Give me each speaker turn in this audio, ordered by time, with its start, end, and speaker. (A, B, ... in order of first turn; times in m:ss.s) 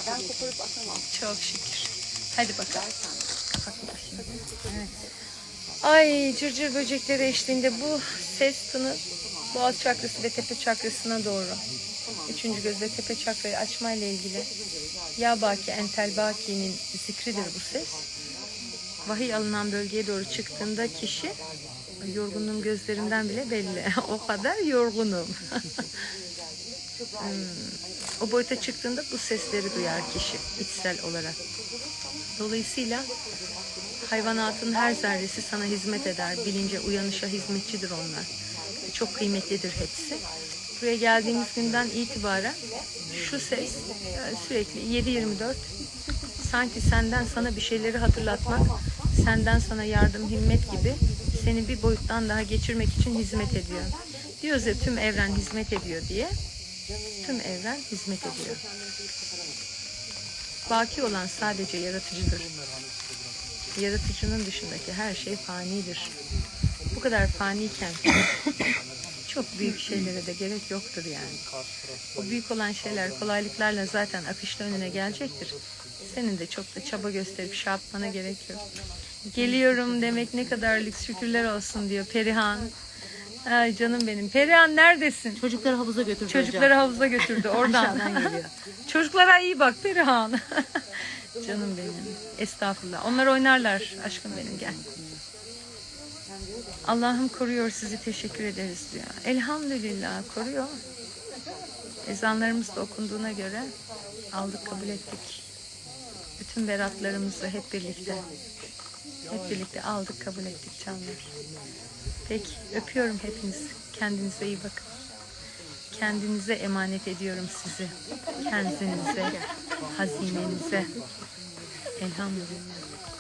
0:01.1-0:02.8 A
0:03.6-0:04.8 A
0:05.8-0:11.6 A
0:12.3-0:14.5 A
0:15.2-0:18.0 A
0:19.1-0:21.3 A
0:22.0-0:25.6 A
0:27.2-0:31.4 A
0:32.4-0:33.1 A
0:34.0-0:38.3 A
0:38.9-0:40.2 A
0:40.8-0:42.6 A
0:43.2-0:45.6 A
0:46.4-0:56.3 A
0:57.2-0:58.6 A
1:00.7-1:02.5 A
1:03.8-1:06.1 A
1:06.9-1:08.1 A
1:09.3-1:11.4 A
1:12.2-1:18.6 A
1:19.3-1:22.7 A
1:23.4-1:25.4 A
1:25.4-1:26.7 B
1:26.3-1:28.3 A
1:27.4-1:28.5 B
1:28.9-1:30.6 A
1:31.4-1:34.8 A
1:34.6-1:35.2 B
1:36.9-1:40.8 A
1:42.0-1:43.7 A
1:44.3-1:45.4 A
1:46.4-1:48.2 A
1:49.3-1:51.3 A
1:52.3-1:54.8 A
1:55.9-1:59.4 A
1:59.9-2:00.9 A
2:02.0-2:02.9 A